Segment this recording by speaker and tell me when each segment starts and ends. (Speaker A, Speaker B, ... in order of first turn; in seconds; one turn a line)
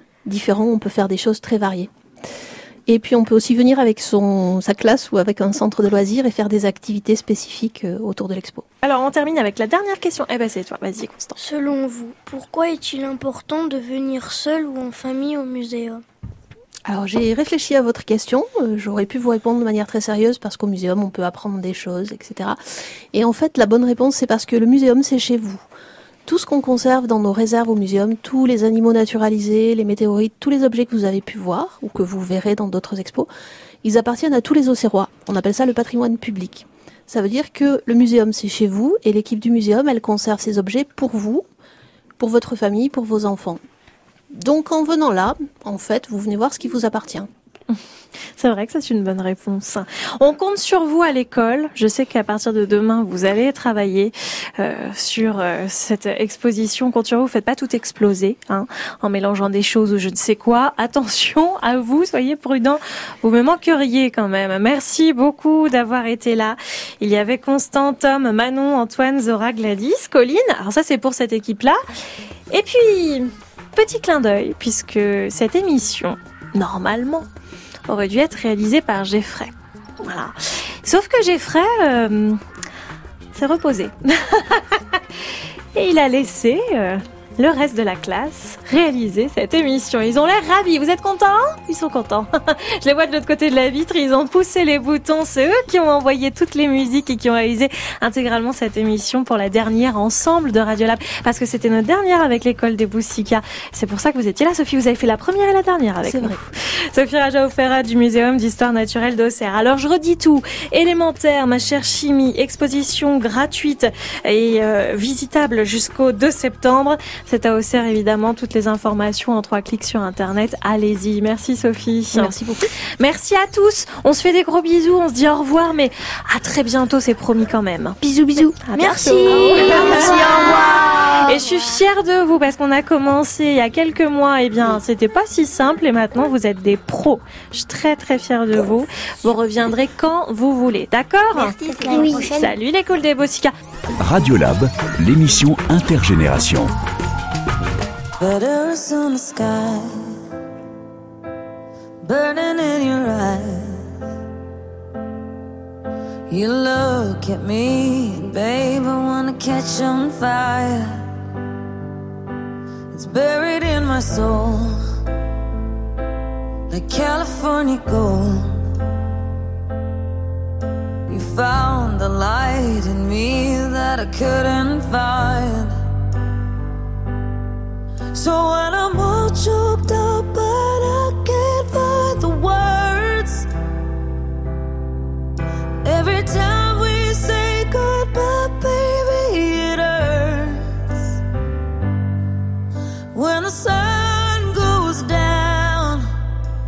Speaker A: 0.2-1.9
Speaker A: 2.9-8.7
Speaker B: 8.8-11.3
Speaker C: 11.4-16.0
Speaker A: 16.9-22.6
Speaker A: 23.1-25.6
Speaker A: 26.2-33.3
Speaker A: 33.8-41.5
Speaker A: 42.2-43.6
Speaker A: 44.3-47.3
Speaker B: 48.4-71.8
Speaker B: 72.5-77.3
Speaker B: 77.9-82.4
Speaker B: 83.3-85.0
Speaker B: 85.7-122.3
Speaker A: 106.0-106.4
Speaker A: 122.1-122.7
Speaker B: 123.0-128.0
Speaker C: 128.0-131.7
Speaker B: 128.6-143.5
Speaker A: 129.8-130.3
Speaker C: 141.3-142.5
Speaker D: 144.0-146.7
Speaker E: 148.2-150.0
Speaker E: 152.0-153.8
Speaker E: 156.3-161.0
Speaker E: 162.9-164.8
Speaker E: 166.7-168.6
Speaker E: 171.1-175.8
Speaker E: 178.1-183.5
Speaker E: 185.8-190.8
Speaker E: 193.1-196.0